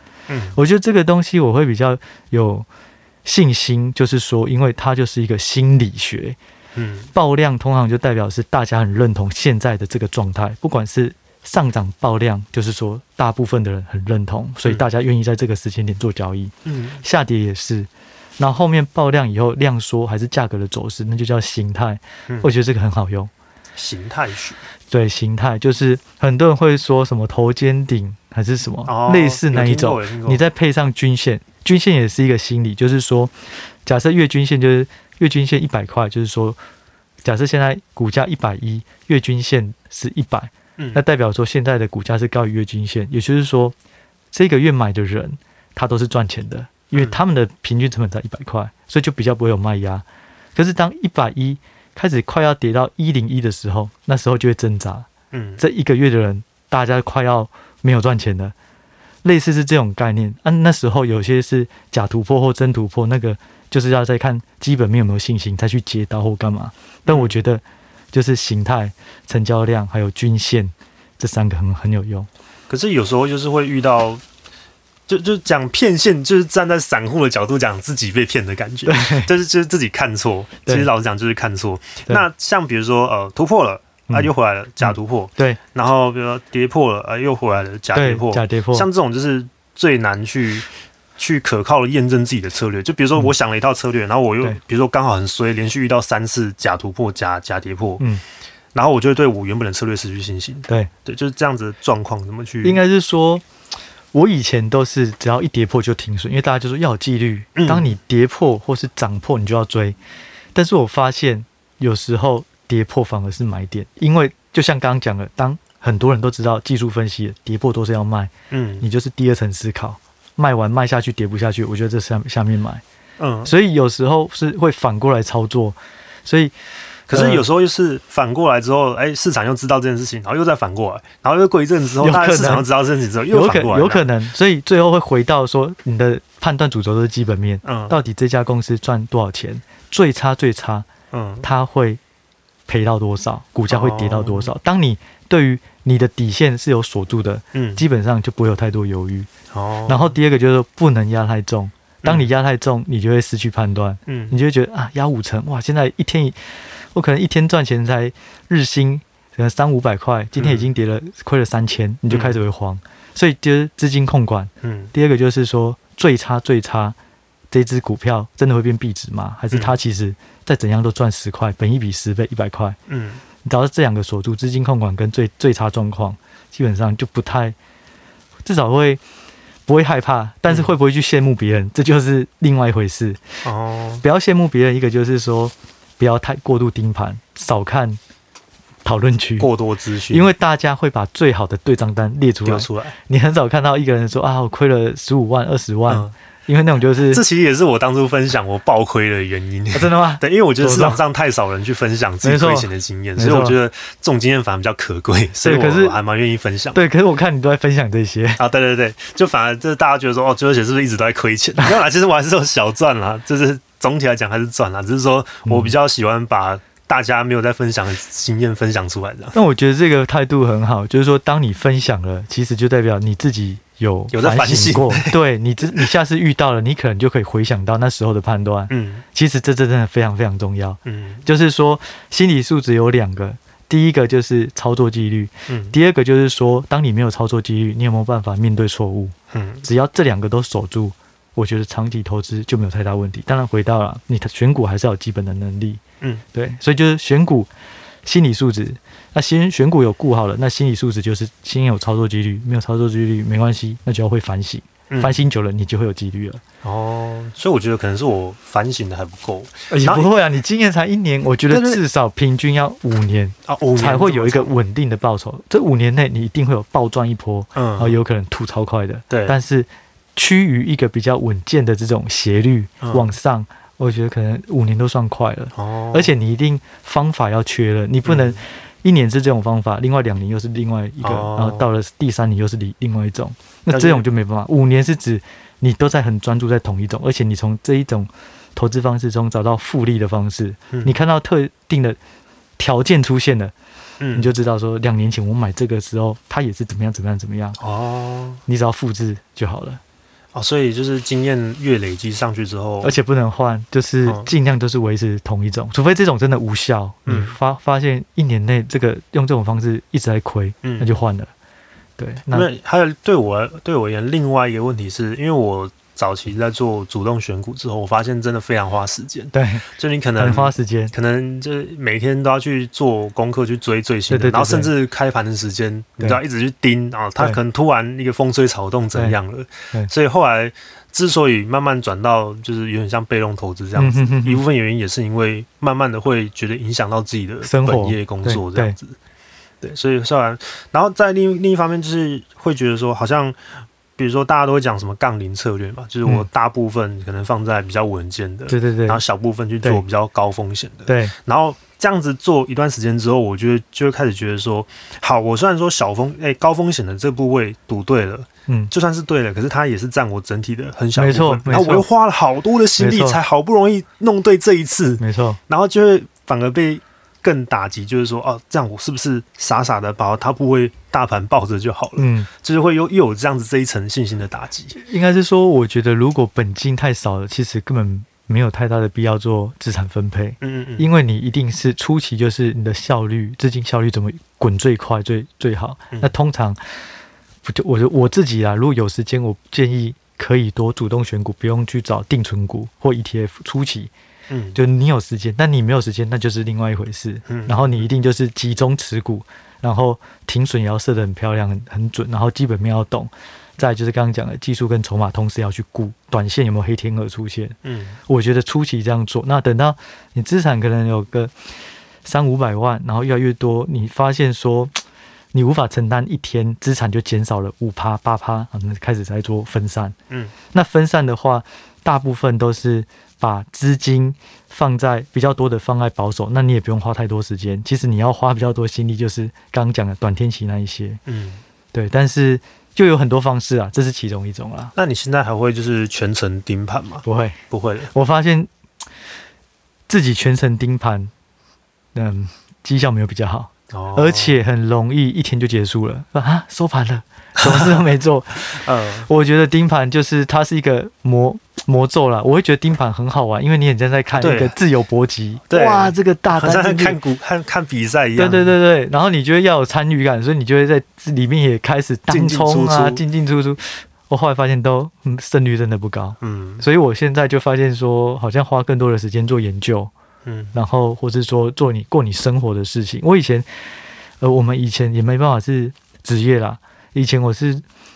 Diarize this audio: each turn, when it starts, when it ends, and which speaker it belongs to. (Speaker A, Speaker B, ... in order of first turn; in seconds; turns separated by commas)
Speaker A: 0.3-0.6, Speaker B: 0.5-2.6, Speaker B: 3.2-6.4, Speaker A: 6.7-7.1, Speaker B: 7.1-23.3, Speaker A: 16.6-17.0, Speaker A: 23.7-24.6, Speaker B: 24.9-33.3, Speaker A: 28.9-30.4, Speaker B: 33.9-36.6, Speaker B: 37.2-43.7, Speaker B: 44.3-55.1, Speaker A: 46.9-47.2, Speaker A: 55.3-55.6, Speaker B: 55.6-58.5, Speaker B: 59.2-72.3, Speaker A: 67.1-67.3, Speaker A: 72.7-74.2, Speaker A: 75.1-90.7, Speaker B: 78.8-79.3, Speaker B: 84.1-85.6, Speaker B: 87.9-88.9, Speaker A: 91.2-98.0, Speaker A: 98.7-102.8, Speaker B: 102.6-103.4, Speaker B: 104.1-110.0, Speaker A: 107.5-107.8, Speaker B: 110.5-122.8, Speaker A: 118.5-118.8, Speaker A: 123.2-123.5, Speaker B: 123.4-126.5, Speaker A: 127.1-134.1, Speaker B: 127.1-127.4, Speaker B: 132.0-132.7, Speaker B: 133.3-140.9, Speaker A: 137.6-137.9, Speaker A: 141.1-141.5, Speaker B: 141.4-142.0, Speaker B: 142.7-149.3, Speaker A: 143.7-144.5, Speaker A: 147.5-147.8, Speaker A: 149.5-150.1, Speaker B: 149.9-156.4, Speaker A: 152.0-152.3, Speaker A: 154.1-154.4, Speaker B: 156.9-166.9, Speaker A: 160.4-160.7, Speaker A: 162.1-162.4, Speaker A: 164.6-164.9, Speaker B: 167.5-172.8, Speaker A: 169.5-169.8, Speaker A: 172.9-173.2, Speaker B: 173.4-177.6, Speaker B: 178.4-179.0, Speaker B: 179.7-183.2, Speaker A: 183.4-184.0, Speaker B: 184.0-188.0, Speaker B: 188.8-189.5, Speaker A: 189.4-190.3, Speaker B: 190.1-197.2, Speaker A: 192.4-192.9, Speaker A: 197.0-206.8, Speaker B: 199.7-201.0, Speaker B: 202.2-203.6, Speaker B: 205.4-206.0, Speaker B: 206.7-208.4, Speaker A: 208.4-219.3, Speaker B: 215.4-215.7, Speaker B: 219.3-245.8, Speaker A: 224.1-225.2, Speaker A: 228.7-229.0, Speaker A: 230.8-231.2, Speaker A: 235.5-235.7, Speaker A: 239.3-239.7, Speaker B: 246.3-247.5, Speaker B: 248.0-256.4, Speaker A: 254.9-255.2, Speaker A: 256.6-260.1, Speaker B: 259.7-292.0, Speaker A: 261.5-261.8, Speaker A: 263.5-264.5, Speaker A: 267.5-268.0, Speaker A: 269.1-269.4, Speaker A: 272.8-273.1, Speaker A: 275.5-276.1, Speaker A: 278.0-278.4, Speaker A: 281.0-281.7, Speaker A: 283.7-284.0, Speaker B: 292.6-293.5, Speaker A: 294.0-294.3, Speaker B: 294.1-297.6, Speaker A: 297.6-298.4, Speaker B: 298.5-299.8, Speaker A: 300.3-302.9, Speaker B: 302.8-311.3, Speaker A: 304.0-304.3, Speaker A: 307.1-307.3, Speaker A: 310.6-310.9, Speaker B: 312.0-312.5, Speaker A: 312.3-338.9, Speaker B: 319.3-320.9, Speaker B: 324.1-324.7, Speaker B: 333.7-334.4, Speaker B: 337.4-338.8, Speaker A: 339.6-343.4, Speaker A: 344.0-374.8, Speaker B: 348.5-349.0, Speaker B: 350.9-351.1, Speaker B: 360.9-361.9, Speaker B: 362.8-363.2, Speaker B: 365.0-365.4, Speaker B: 372.0-372.3, Speaker B: 374.7-386.6, Speaker A: 380.4-380.9, Speaker B: 387.4-393.9, Speaker A: 394.3-394.6, Speaker B: 394.5-411.3, Speaker A: 397.3-397.9, Speaker A: 407.6-408.0, Speaker B: 412.0-414.8, Speaker B: 415.3-419.9, Speaker B: 420.5-431.0, Speaker A: 431.1-431.4, Speaker B: 431.7-434.7, Speaker A: 434.7-437.9, Speaker B: 437.0-437.4, Speaker B: 437.9-438.5, Speaker B: 439.9-441.1, Speaker B: 441.9-457.0, Speaker A: 443.7-444.4, Speaker A: 447.4-447.8, Speaker A: 448.5-449.1, Speaker A: 454.1-454.6, Speaker A: 455.5-458.5, Speaker B: 458.1-469.9, Speaker A: 462.1-463.0, Speaker A: 466.2-466.6, Speaker A: 470.2-470.5, Speaker B: 470.5-473.5, Speaker B: 474.2-477.6